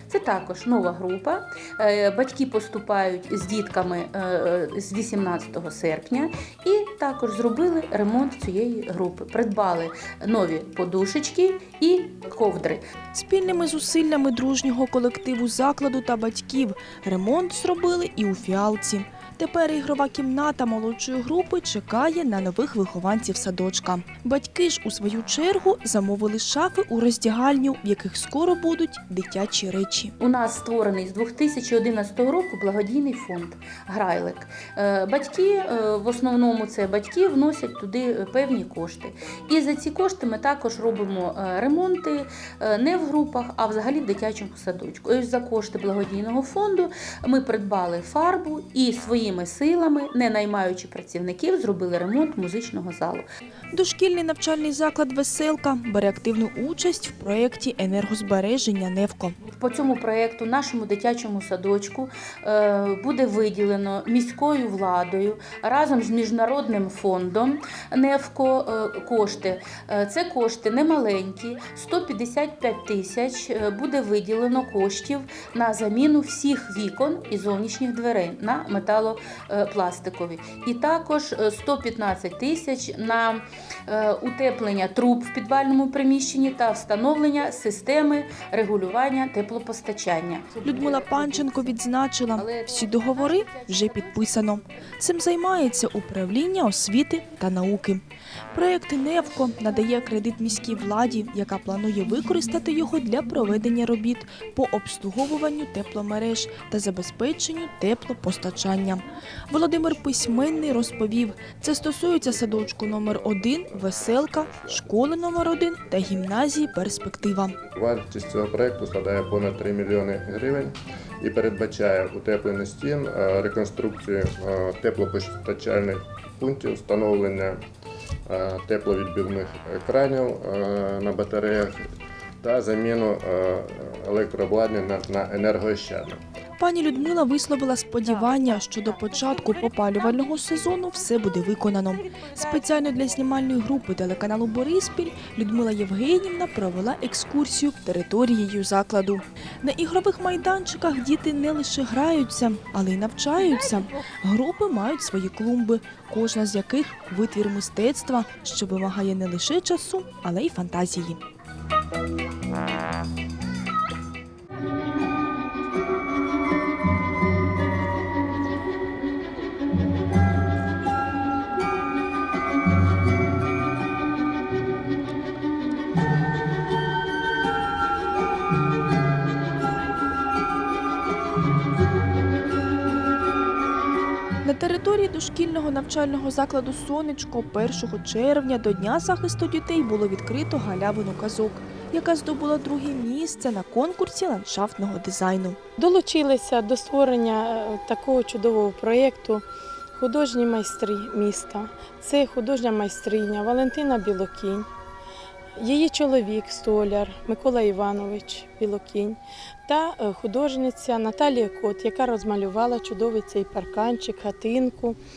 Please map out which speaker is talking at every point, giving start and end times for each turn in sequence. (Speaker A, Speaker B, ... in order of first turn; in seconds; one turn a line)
Speaker A: 0.1-12.8
Speaker B: 13.1-30.1
Speaker A: 30.2-53.2
Speaker B: 53.7-59.4
Speaker A: 59.5-91.0
Speaker B: 90.6-117.6
Speaker A: 92.3-94.6
Speaker C: 112.0-115.0
Speaker C: 116.5-117.0
Speaker C: 117.6-127.6
Speaker C: 128.3-131.8
Speaker C: 132.4-136.2
Speaker B: 136.6-161.2
Speaker B: 184.4-195.6
Speaker D: 195.8-199.4
Speaker D: 199.9-204.7
Speaker D: 205.6-215.0